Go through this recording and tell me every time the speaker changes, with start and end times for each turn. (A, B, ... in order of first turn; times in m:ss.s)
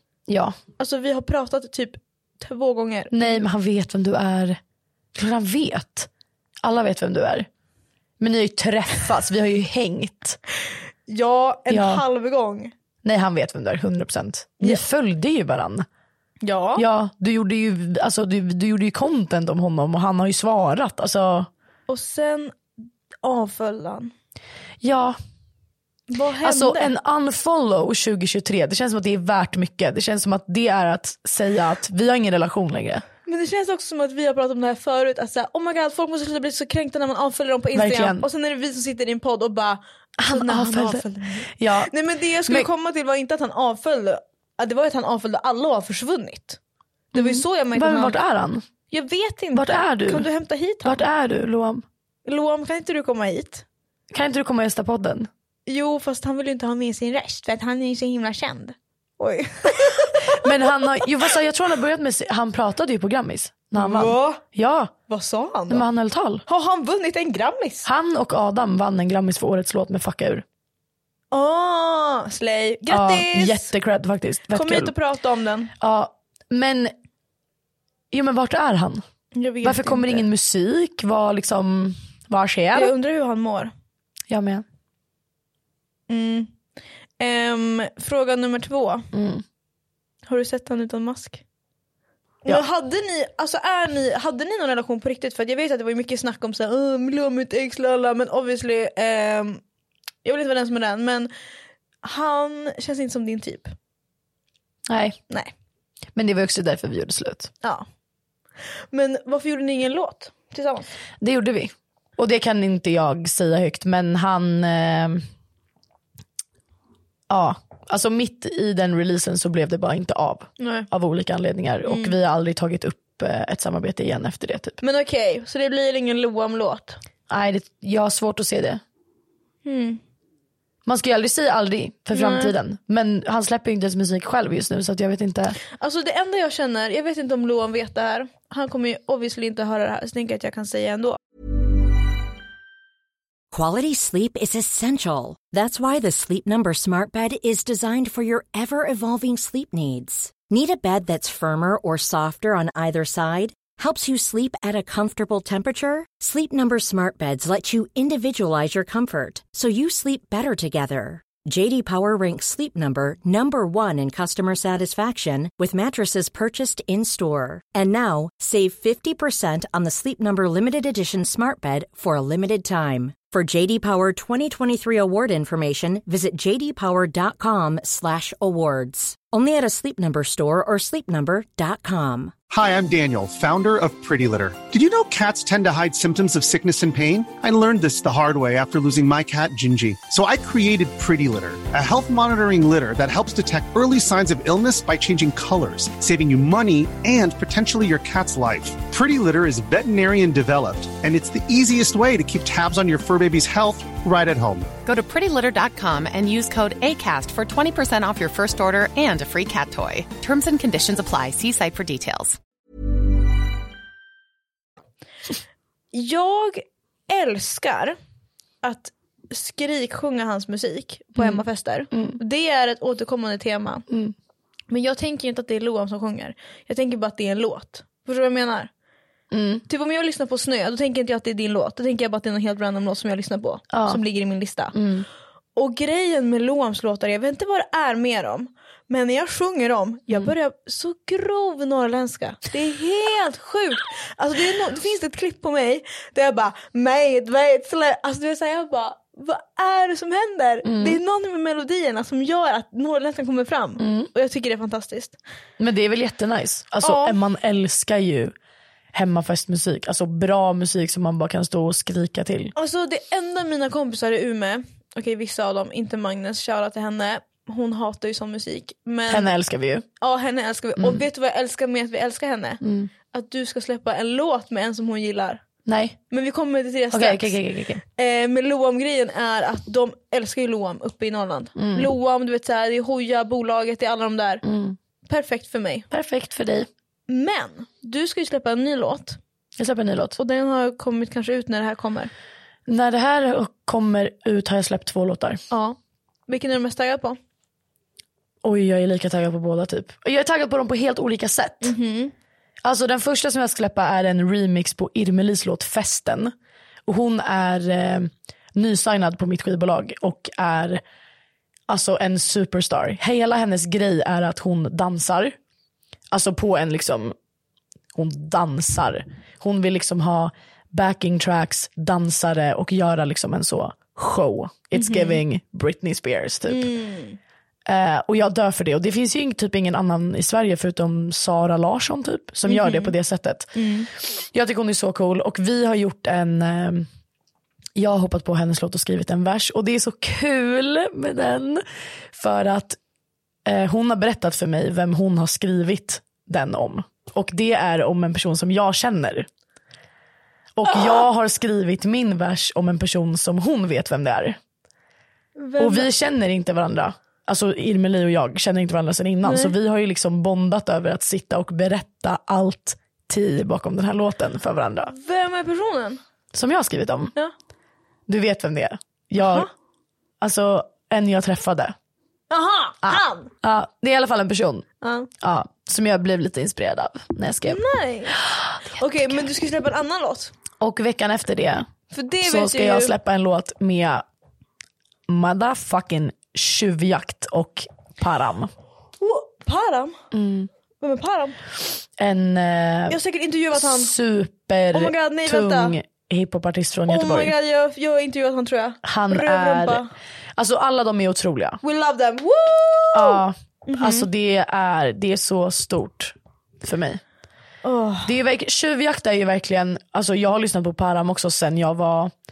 0:00.3-0:00.6 A
0:00.8-0:03.4 B
0:03.1-0:04.6 A
0:05.1-0:06.1 A
0:06.6-0:07.5 A
0:08.2-0:10.4 A
0:11.1-0:12.7 B
0:11.7-0:12.0 A
0:13.0-0:15.9 A
0:16.4-0:16.8 B
0:16.8-0:21.5 A
0:21.9-0:22.7 B
0:23.2-0:24.1 B
0:24.8-0:25.2 A
0:26.1-0:26.9 B
0:26.4-0:33.0 A
0:33.2-0:46.6 B
0:37.7-0:38.2 A
0:40.2-0:41.9 A
0:47.1-0:48.2 B
0:47.1-0:48.6 A
0:48.9-0:51.0 B
0:49.5-0:50.3 A
0:50.8-0:51.8 A
0:52.2-0:53.6 B
0:54.1-0:55.3 A
0:55.7-1:00.5 B
1:00.2-1:04.9 A
1:03.7-1:04.4 B
1:05.1-1:05.8 B
1:05.7-1:06.4 A
1:06.5-1:07.9 B
1:07.8-1:10.4 A
1:11.3-1:13.7 B
1:12.9-1:14.9 A
1:14.5-1:15.7 B
1:15.8-1:16.9 A
1:18.1-1:19.0 A
1:19.3-1:20.2 B
1:19.6-1:22.9 A
1:22.7-1:23.7 B
1:24.3-1:24.6 A
1:26.1-1:26.5 B
1:27.2-1:29.1 B
1:29.1-1:29.4 A
1:30.3-1:31.4 B
1:32.4-1:39.6 B
1:40.2-1:41.3 B
1:42.0-1:43.7 B
1:44.9-1:45.2 A
1:46.1-1:47.5 A
1:48.9-1:50.9 B
1:51.2-1:55.2 A
1:57.3-2:04.8 A
2:00.6-2:00.9 B
2:01.9-2:02.2 B
2:04.8-2:07.0 B
2:07.3-2:08.8 A
2:09.6-2:10.0 B
2:10.8-2:15.6 A
2:12.1-2:12.5 B
2:15.8-2:21.2 B
2:23.5-3:02.3 C
3:02.5-3:24.7 D
3:24.8-3:32.4 E
3:35.9-3:38.0 B
3:38.6-3:43.9 B
3:41.2-3:42.2 A
3:43.9-3:44.1 A
3:44.7-3:48.7 B
3:49.3-3:49.6 A
3:49.7-3:54.8 B
3:53.7-3:54.0 A
3:54.7-3:55.1 A
3:55.6-4:15.2 B
4:10.6-4:11.0 A
4:13.8-4:14.1 A
4:15.6-4:18.3 A
4:16.8-4:17.2 B
4:18.9-4:22.5 A
4:22.6-4:29.3 B
4:29.1-4:29.8 A
4:30.0-4:32.6 B
4:30.8-4:31.0 A
4:32.6-4:32.9 A
4:33.1-4:35.4 B
4:35.6-4:36.0 A
4:36.1-4:37.4 B
4:36.9-4:37.8 A
4:37.9-4:44.4 B
4:41.6-4:41.9 A
4:44.4-4:44.8 A
4:45.1-4:45.9 B
4:45.9-4:46.7 A
4:47.1-4:49.2 B
4:49.6-4:50.2 A
4:50.2-4:52.1 B
4:52.7-4:55.4 A
4:55.5-4:55.8 B
4:56.3-4:57.2 B
4:58.4-5:01.7 A
5:01.6-5:02.1 B
5:02.6-5:06.3 A
5:06.9-5:10.8 A
5:11.7-5:15.4 A
5:16.1-5:17.1 A
5:17.9-5:26.7 A
5:24.7-5:25.2 B
5:26.5-5:27.2 B
5:27.6-5:36.9 A
5:32.5-5:32.9 B
5:33.6-5:33.9 B
5:37.7-5:42.8 A
5:43.4-5:49.3 A
5:50.6-5:54.4 A
5:55.4-5:55.9 B
5:55.6-6:04.9 A
5:59.2-5:59.5 B
6:04.8-6:06.0 B
6:06.3-6:07.1 A
6:08.1-6:09.5 A
6:09.2-6:09.5 B
6:10.2-6:11.7 A
6:12.3-6:13.3 B
6:12.8-6:14.6 A
6:14.8-6:15.1 B
6:15.2-6:17.6 A
6:17.4-6:20.3 B
6:18.2-6:19.2 A
6:20.6-6:21.7 A
6:21.9-6:22.9 B
6:22.2-6:24.0 A
6:25.1-6:28.5 A
6:29.0-6:30.0 B
6:30.1-6:30.5 A
6:30.8-6:31.4 B
6:32.0-6:33.0 A
6:32.9-6:33.9 B
6:33.5-6:37.4 A
6:34.7-6:35.8 B
6:36.9-6:39.9 B
6:38.8-6:39.8 A
6:40.4-6:41.6 A
6:41.6-6:44.1 B
6:42.9-6:47.0 A
6:47.6-6:48.1 B
6:48.0-6:52.1 A